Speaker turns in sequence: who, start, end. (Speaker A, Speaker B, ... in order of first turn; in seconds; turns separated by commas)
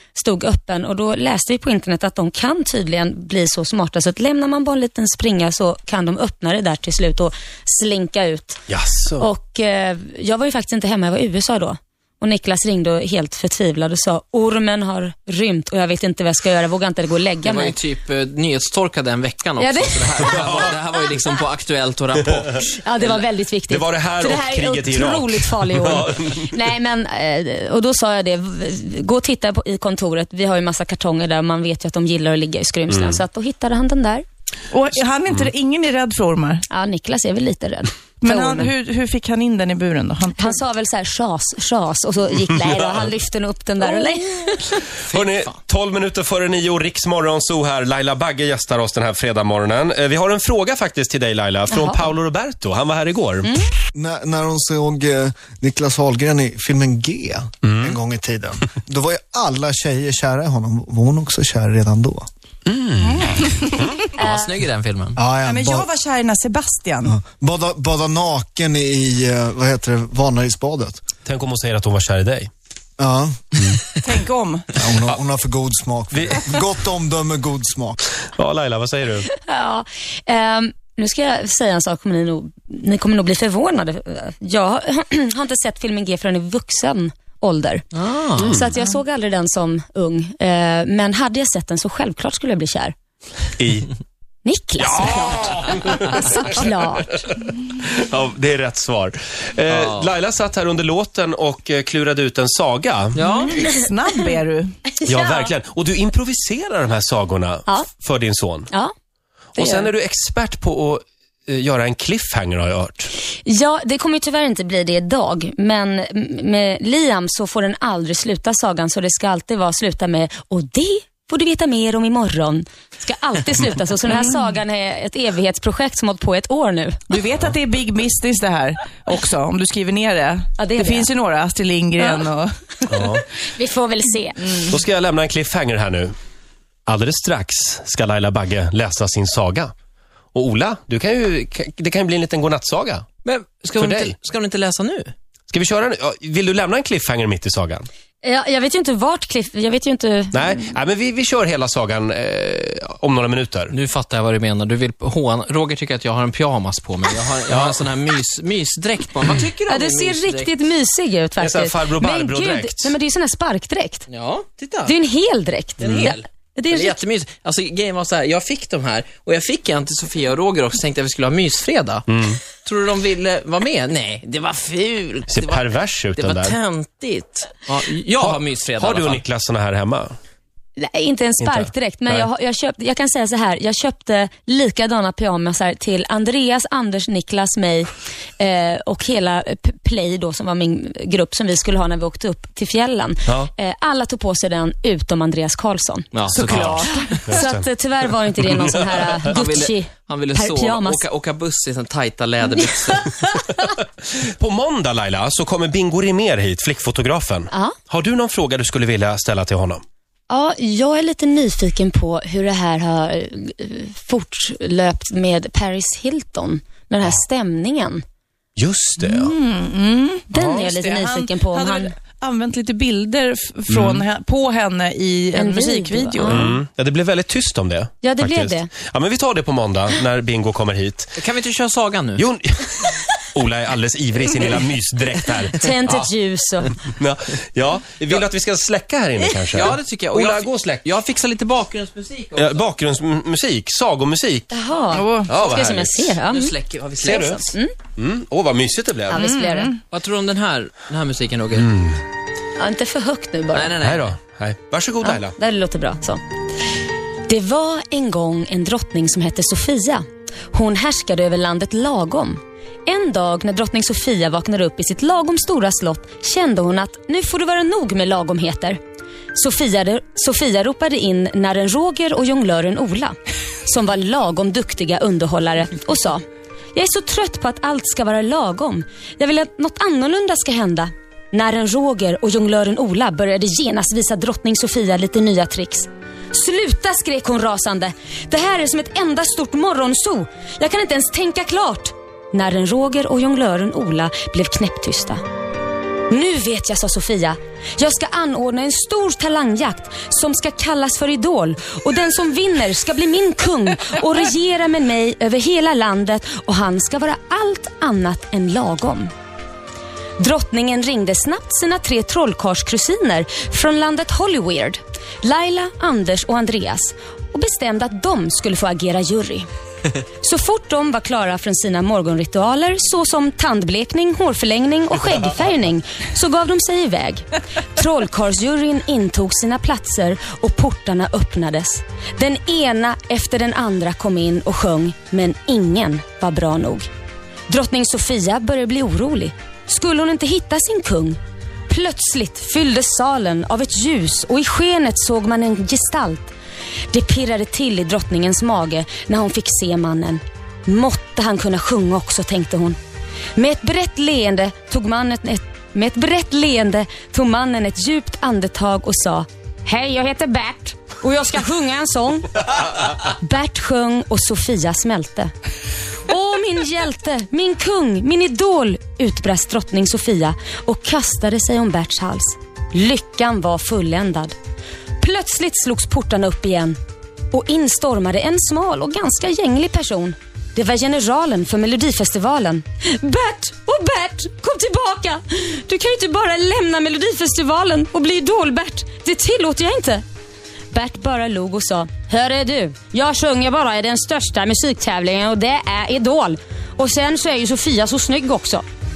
Speaker A: 0.1-8.6, Speaker B: 8.7-9.2, Speaker A: 9.2-17.8, Speaker C: 17.4-23.2, Speaker A: 19.6-20.6, Speaker A: 22.8-34.2, Speaker B: 23.7-26.5, Speaker B: 32.9-33.2, Speaker D: 34.7-36.6, Speaker A: 36.7-38.7, Speaker D: 38.2-40.6, Speaker A: 40.4-44.8, Speaker C: 45.1-45.5, Speaker B: 45.1-53.5, Speaker A: 51.7-52.1, Speaker A: 53.4-53.7, Speaker E: 53.9-62.3, Speaker B: 57.6-57.9, Speaker B: 62.7-63.3, Speaker D: 63.0-63.7, Speaker C: 64.2-65.2, Speaker A: 64.2-64.5, Speaker E: 65.2-65.9, Speaker D: 65.4-67.1, Speaker E: 67.1-71.0, Speaker B: 71.2-72.5, Speaker E: 73.0-73.8, Speaker D: 74.0-74.7, Speaker E: 74.8-78.0, Speaker B: 76.1-76.5, Speaker B: 78.3-79.3, Speaker A: 79.3-87.8, Speaker C: 87.9-88.5, Speaker A: 88.4-92.9, Speaker B: 88.4-88.7, Speaker B: 93.6-93.9, Speaker A: 94.4-97.2, Speaker B: 94.8-96.4, Speaker B: 97.8-103.2, Speaker C: 99.7-100.1, Speaker C: 103.1-103.6, Speaker D: 103.4-104.7, Speaker A: 105.0-105.5, Speaker B: 105.0-108.7, Speaker B: 109.5-113.1, Speaker A: 109.6-109.9, Speaker A: 113.4-127.0, Speaker D: 127.1-133.0, Speaker A: 130.6-131.1, Speaker B: 132.9-133.2, Speaker A: 133.5-134.7, Speaker B: 134.7-136.1, Speaker B: 136.9-139.7, Speaker B: 140.3-143.1, Speaker C: 143.2-145.1, Speaker B: 143.8-144.1, Speaker B: 145.5-147.8, Speaker A: 148.2-150.6, Speaker B: 150.3-153.7, Speaker C: 153.7-160.5, Speaker B: 157.5-157.8, Speaker A: 159.7-164.1, Speaker B: 161.4-162.9, Speaker C: 164.1-164.9, Speaker A: 164.8-167.0, Speaker C: 165.8-179.2, Speaker B: 172.1-172.4, Speaker B: 175.3-176.6, Speaker B: 178.2-180.2, Speaker A: 180.8-196.1, Speaker B: 181.4-182.3, Speaker C: 196.1-197.1, Speaker D: 196.3-197.1, Speaker B: 196.4-197.7, Speaker A: 196.8-201.0, Speaker C: 199.2-203.1, Speaker A: 202.6-203.7, Speaker B: 204.2-209.8, Speaker A: 207.5-207.8, Speaker A: 210.3-218.0, Speaker B: 218.6-219.3, Speaker D: 219.0-226.5, Speaker A: 220.3-221.9, Speaker B: 223.7-224.0, Speaker A: 225.3-226.5, Speaker B: 226.2-231.2, Speaker A: 228.0-228.7, Speaker C: 231.2-232.2, Speaker B: 232.2-236.1, Speaker A: 235.5-236.7, Speaker B: 236.9-240.9, Speaker C: 239.5-242.7, Speaker B: 242.3-244.5, Speaker A: 244.5-247.7, Speaker D: 244.9-245.3, Speaker B: 245.3-246.1, Speaker C: 246.2-247.3, Speaker B: 247.0-249.2, Speaker A: 249.1-249.8, Speaker D: 249.1-249.8, Speaker C: 249.9-251.7, Speaker B: 251.6-252.0, Speaker A: 252.6-253.7, Speaker C: 253.5-254.2, Speaker B: 253.8-255.3, Speaker A: 255.0-256.2, Speaker A: 257.3-268.8, Speaker A: 269.3-276.2, Speaker A: 276.7-295.2, Speaker A: 296.1-309.1, Speaker A: 310.2-319.4, Speaker A: 320.2-336.9, Speaker A: 337.5-341.2, Speaker A: 341.7-346.3, Speaker A: 346.9-352.8, Speaker A: 353.3-365.3, Speaker A: 366.1-374.4, Speaker A: 375.0-376.8, Speaker A: 377.3-390.0, Speaker A: 390.7-398.6